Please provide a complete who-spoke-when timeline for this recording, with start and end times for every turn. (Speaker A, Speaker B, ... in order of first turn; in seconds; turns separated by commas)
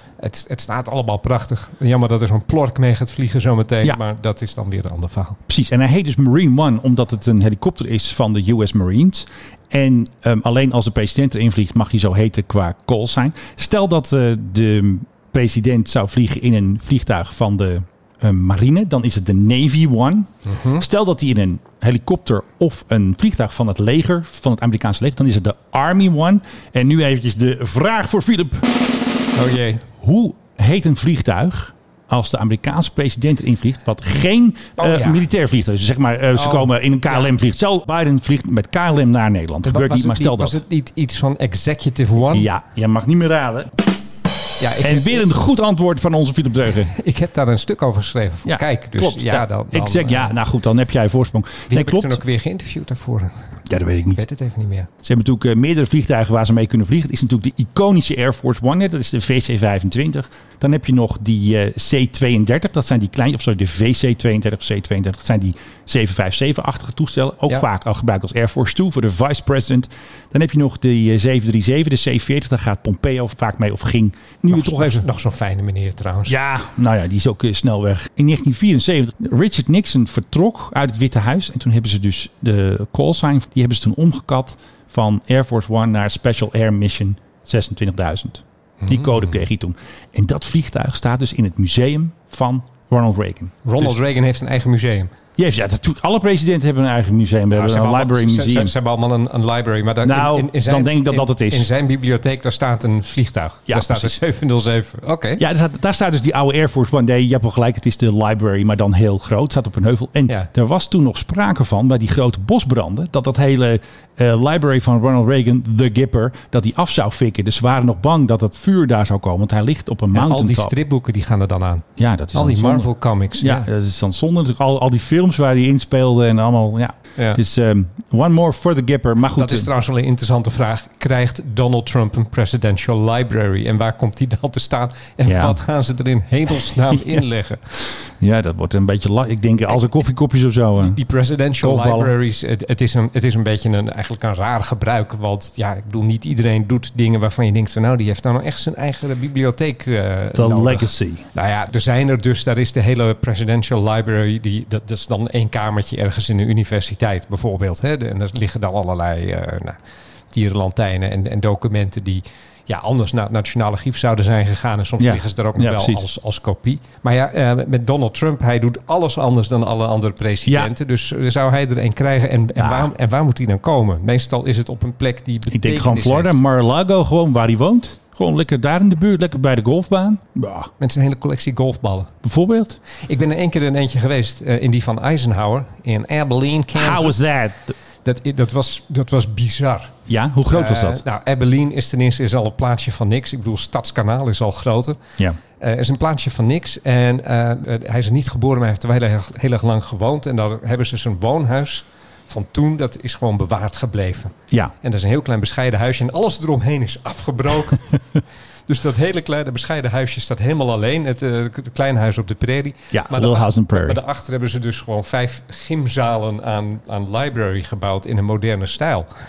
Speaker A: 0.2-5.4, Speaker B: 5.5-28.7, Speaker A: 20.5-20.8, Speaker A: 29.3-29.8, Speaker B: 30.0-40.6, Speaker A: 34.8-35.2, Speaker A: 36.4-37.3, Speaker A: 39.6-42.5, Speaker B: 42.3-43.7, Speaker A: 44.6-45.2, Speaker B: 44.8-46.9, Speaker A: 46.9-50.3, Speaker B: 48.5-52.2, Speaker A: 51.7-53.3, Speaker B: 53.7-54.2, Speaker A: 54.1-54.9, Speaker B: 55.0-75.0, Speaker A: 74.5-76.3, Speaker B: 76.3-94.0, Speaker A: 88.8-89.4, Speaker A: 93.6-95.1, Speaker B: 95.4-98.7, Speaker A: 97.5-105.4, Speaker B: 100.0-101.7, Speaker B: 103.7-104.2, Speaker B: 105.4-120.7, Speaker A: 120.1-123.7, Speaker B: 122.0-129.7, Speaker A: 129.4-137.6, Speaker B: 135.2-135.6, Speaker B: 136.9-137.2, Speaker B: 138.2-141.0, Speaker A: 140.8-159.8, Speaker B: 141.6-142.1, Speaker B: 150.3-151.2, Speaker A: 160.3-176.4, Speaker B: 165.0-166.0, Speaker B: 170.4-170.7, Speaker B: 172.6-172.9, Speaker B: 175.5-180.7, Speaker A: 180.8-182.1, Speaker B: 182.2-182.8, Speaker A: 183.0-187.3, Speaker B: 186.8-187.7, Speaker A: 188.0-189.9, Speaker B: 190.1-191.0, Speaker A: 190.5-195.0, Speaker A: 195.6-207.8, Speaker A: 208.7-219.1, Speaker B: 212.9-214.0